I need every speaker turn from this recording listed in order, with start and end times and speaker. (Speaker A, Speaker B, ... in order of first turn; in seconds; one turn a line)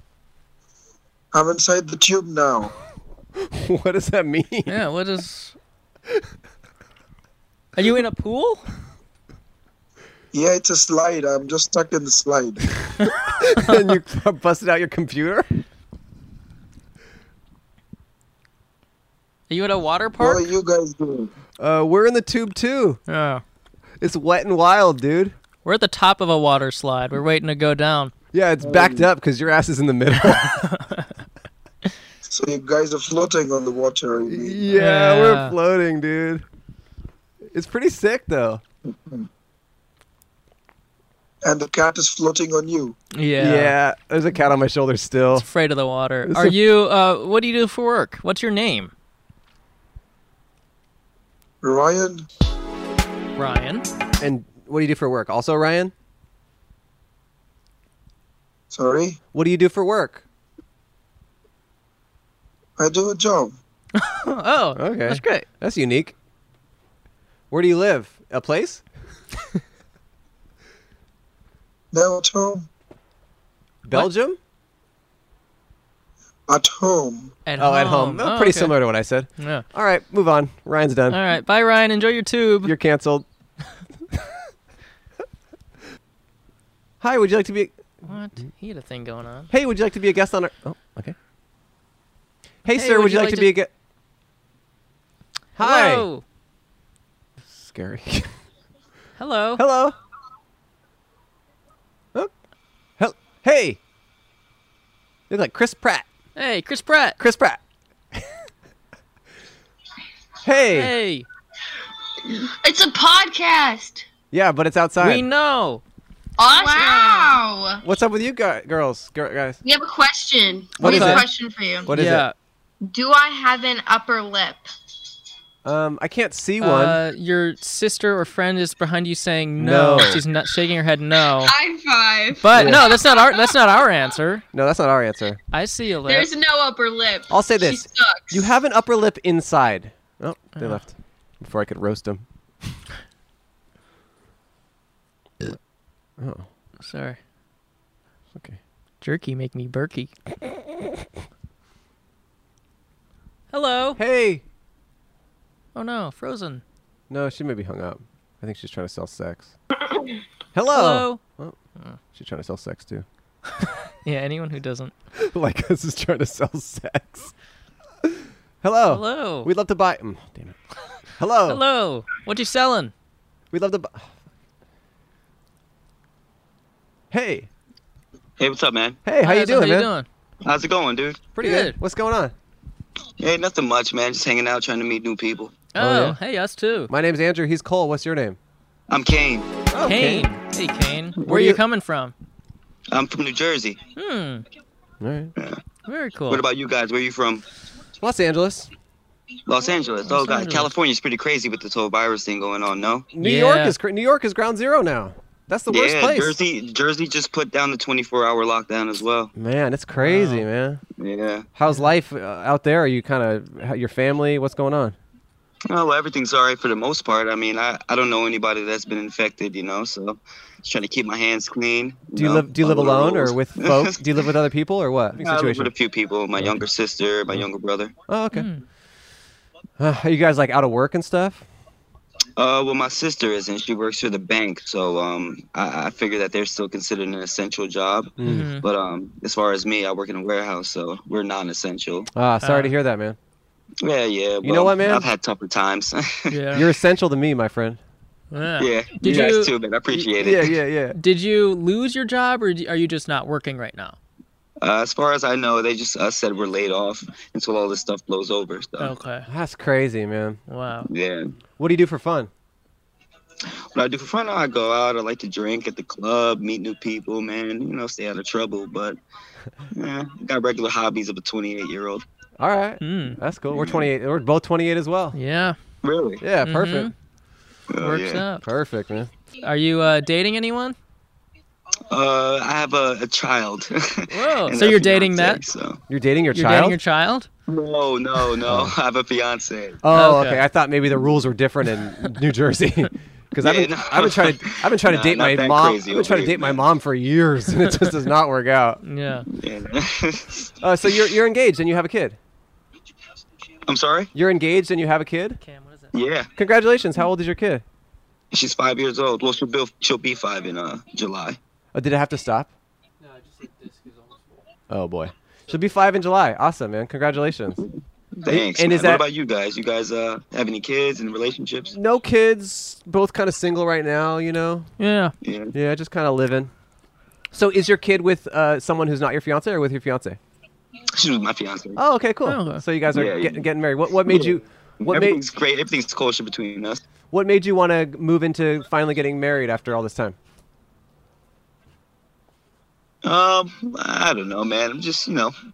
Speaker A: 1.3-2.7
Speaker B: 3.4-4.8
Speaker C: 4.7-5.5
Speaker C: 7.8-8.7
Speaker A: 10.3-12.6
Speaker B: 13.2-15.5
Speaker C: 19.5-20.4
Speaker A: 20.2-21.3
Speaker B: 21.6-23.0
Speaker C: 23.1-23.4
Speaker B: 24.0-25.3
Speaker C: 25.6-28.1
Speaker B: 28.3-30.6
Speaker A: 28.7-29.0
Speaker C: 30.4-31.1
Speaker A: 32.2-34.6
Speaker B: 34.3-36.4
Speaker C: 34.7-35.5
Speaker B: 37.5-38.6
Speaker A: 38.9-39.2
Speaker A: 41.4-43.0
Speaker C: 43.1-43.7
Speaker B: 43.4-45.5
Speaker C: 45.4-48.9
Speaker B: 46.2-46.6
Speaker A: 51.6-52.2
Speaker C: 53.4-53.8
Speaker B: 54.2-55.9
Speaker A: 58.7-59.2
Speaker B: 59.3-60.2
Speaker A: 62.8-63.6
Speaker C: 64.0-65.5
Speaker B: 64.8-66.1
Speaker B: 67.5-68.8
Speaker A: 71.9-72.7
Speaker B: 73.8-74.4
Speaker A: 76.5-77.3
Speaker C: 77.5-78.8
Speaker B: 77.6-81.2
Speaker C: 79.4-79.6
Speaker C: 81.1-82.7
Speaker B: 82.6-83.2
Speaker B: 87.0-87.8
Speaker C: 88.0-89.5
Speaker B: 89.5-91.1
Speaker B: 92.6-93.7
Speaker C: 92.7-93.5
Speaker B: 95.5-96.1
Speaker C: 95.6-96.2
Speaker B: 97.6-98.3
Speaker C: 99.2-99.6
Speaker B: 99.5-100.0
Speaker B: 103.0-103.8
Speaker B: 105.3-106.0
Speaker C: 106.3-107.2
Speaker B: 107.2-107.6
Speaker B: 110.4-110.9
Speaker C: 110.7-111.3
Speaker D: 112.6-114.0
Speaker B: 114.3-115.2
Speaker C: 115.0-115.8
Speaker D: 116.4-117.8
Speaker B: 117.8-119.6
Speaker D: 119.6-121.9
Speaker B: 120.8-121.2
Speaker C: 120.8-121.2
Speaker B: 121.9-122.3
Speaker C: 121.9-122.3
Speaker D: 122.8-124.6
Speaker B: 125.6-127.0
Speaker C: 126.6-131.5
Speaker B: 129.6-130.2
Speaker D: 131.4-133.3
Speaker C: 132.4-134.4
Speaker B: 132.5-132.9
Speaker B: 134.5-135.4
Speaker C: 135.5-136.3
Speaker D: 136.1-138.4
Speaker B: 137.3-142.8
Speaker C: 140.6-140.8
Speaker B: 146.2-146.5
Speaker C: 146.8-147.2
Speaker C: 149.0-150.1
Speaker C: 153.5-154.0
Speaker B: 154.0-154.4
Speaker C: 155.7-156.6
Speaker B: 157.1-159.5
Speaker B: 160.5-161.5
Speaker C: 160.7-161.2
Speaker B: 162.1-163.0
Speaker C: 164.0-164.9
Speaker B: 165.2-167.3
Speaker B: 168.0-170.6
Speaker C: 168.9-169.5
Speaker B: 171.2-171.6
Speaker C: 171.5-172.9
Speaker B: 173.5-174.1
Speaker B: 177.1-177.5
Speaker E: 178.4-179.0
Speaker B: 179.0-179.9
Speaker C: 179.2-180.1
Speaker E: 180.4-181.3
Speaker B: 181.3-182.3
Speaker C: 181.4-181.8
Speaker E: 183.2-185.7
Speaker C: 185.7-186.9
Speaker B: 185.8-186.2
Speaker B: 186.9-188.4
Speaker E: 188.9-189.6
Speaker B: 189.7-190.2
Speaker C: 189.8-192.1
Speaker B: 191.2-191.6
Speaker E: 192.9-193.8
Speaker C: 193.9-194.4
Speaker B: 195.0-195.3
Speaker C: 195.8-196.4
Speaker E: 196.3-197.4
Speaker B: 198.0-198.7
Speaker E: 199.5-203.1
Speaker C: 200.0-200.7
Speaker B: 203.1-206.3
Speaker C: 203.2-203.7
Speaker E: 205.7-209.3
Speaker B: 209.3-210.8
Speaker C: 210.0-210.4
Speaker E: 211.0-211.5
Speaker B: 211.5-214.9
Speaker E: 215.7-224.2
Speaker B: 222.1-225.7
Speaker E: 225.2-227.9
Speaker B: 228.1-228.5
Speaker C: 228.3-228.6
Speaker B: 229.8-231.4
Speaker E: 232.4-242.1
Speaker B: 238.2-238.5
Speaker C: 238.2-238.7
Speaker B: 242.1-243.2
Speaker C: 242.4-242.7
Speaker E: 243.8-246.4
Speaker B: 244.4-245.1
Speaker C: 246.3-246.7
Speaker B: 246.5-247.8
Speaker C: 248.3-249.5
Speaker E: 248.6-250.6
Speaker B: 249.0-251.0
Speaker C: 250.9-254.0
Speaker E: 254.6-258.9
Speaker C: 258.8-259.3
Speaker B: 259.2-260.4
Speaker C: 260.5-260.9
Speaker E: 260.9-261.3
Speaker B: 261.6-262.3
Speaker E: 263.7-269.0
Speaker E: 269.7-272.0
Speaker B: 272.4-275.2
Speaker C: 272.8-273.2
Speaker E: 273.5-273.9
Speaker C: 275.1-275.6
Speaker E: 275.8-276.2
Speaker B: 276.2-276.9
Speaker C: 276.4-276.9
Speaker E: 277.7-278.2
Speaker C: 277.8-278.4
Speaker B: 278.4-279.1
Speaker C: 279.4-280.8
Speaker E: 281.9-285.8
Speaker C: 284.1-285.4
Speaker B: 285.9-286.8
Speaker C: 286.3-287.3
Speaker E: 287.5-289.8
Speaker B: 288.4-288.7
Speaker B: 289.8-298.8
Speaker C: 289.9-290.4
Speaker E: 293.4-296.6
Speaker C: 298.8-299.3
Speaker E: 299.3-300.5
Speaker B: 300.6-302.2
Speaker E: 303.6-304.1
Speaker B: 304.1-305.4
Speaker C: 305.4-305.9
Speaker E: 305.9-306.3
Speaker B: 306.4-307.6
Speaker E: 308.3-311.4
Speaker B: 311.7-312.5
Speaker B: 314.7-317.6
Speaker E: 318.2-321.7
Speaker B: 318.3-319.0
Speaker B: 321.7-324.7
Speaker C: 324.8-325.1
Speaker E: 325.2-325.5
Speaker B: 325.5-326.5
Speaker B: 327.3-330.2
Speaker E: 330.9-331.8
Speaker B: 331.8-335.2
Speaker C: 332.2-332.6
Speaker E: 332.9-333.4
Speaker E: 334.0-336.8
Speaker B: 337.1-340.1
Speaker E: 343.0-345.3